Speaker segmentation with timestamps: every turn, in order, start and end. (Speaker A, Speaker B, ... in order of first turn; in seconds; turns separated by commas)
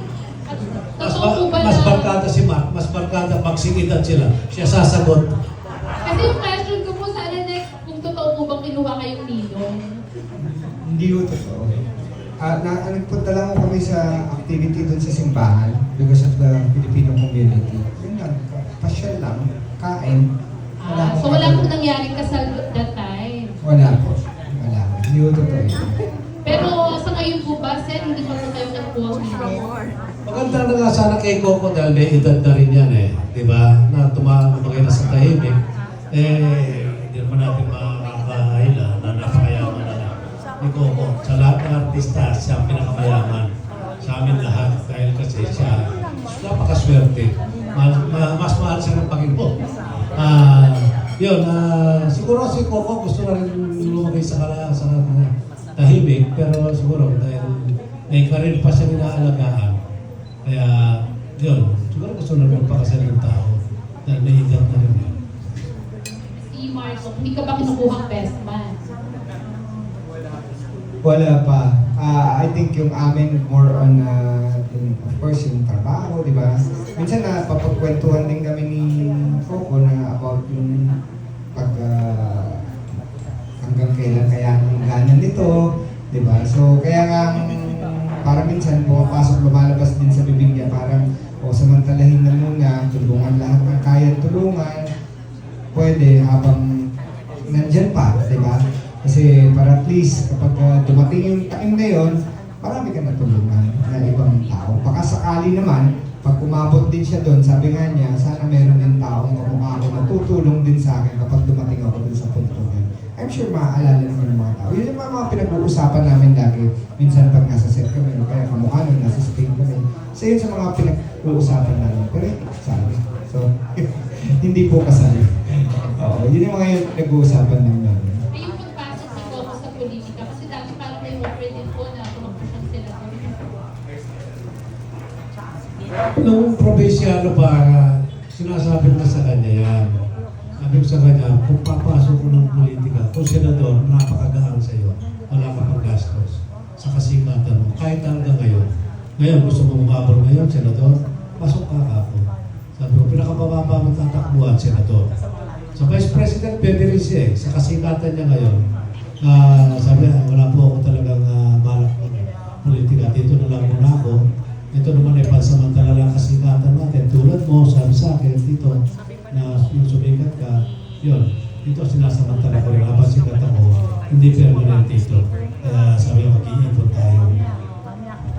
Speaker A: 0.5-2.1, Speaker B: 1.0-5.3, Speaker A: 6.0-9.8, Speaker C: 10.4-11.7, Speaker C: 12.4-20.3, Speaker A: 20.8-23.5, Speaker C: 20.9-21.7, Speaker C: 23.6-26.0, Speaker A: 26.4-29.6, Speaker B: 30.3-35.5, Speaker B: 36.1-43.5, Speaker B: 44.0-45.8, Speaker B: 46.4-49.5, Speaker B: 50.1-59.8, Speaker B: 60.5-65.1, Speaker A: 66.5-68.8, Speaker C: 71.0-81.0, Speaker C: 81.5-82.6, Speaker C: 83.6-85.6, Speaker C: 86.1-94.8, Speaker C: 95.7-96.8, Speaker C: 97.5-123.8, Speaker C: 124.4-128.2, Speaker A: 128.3-133.4, Speaker B: 136.2-137.8, Speaker B: 138.4-139.9, Speaker B: 140.6-148.7, Speaker B: 149.2-152.2, Speaker B: 152.8-155.1, Speaker B: 155.8-158.6, Speaker B: 159.2-164.2, Speaker B: 164.7-168.7, Speaker B: 169.3-177.4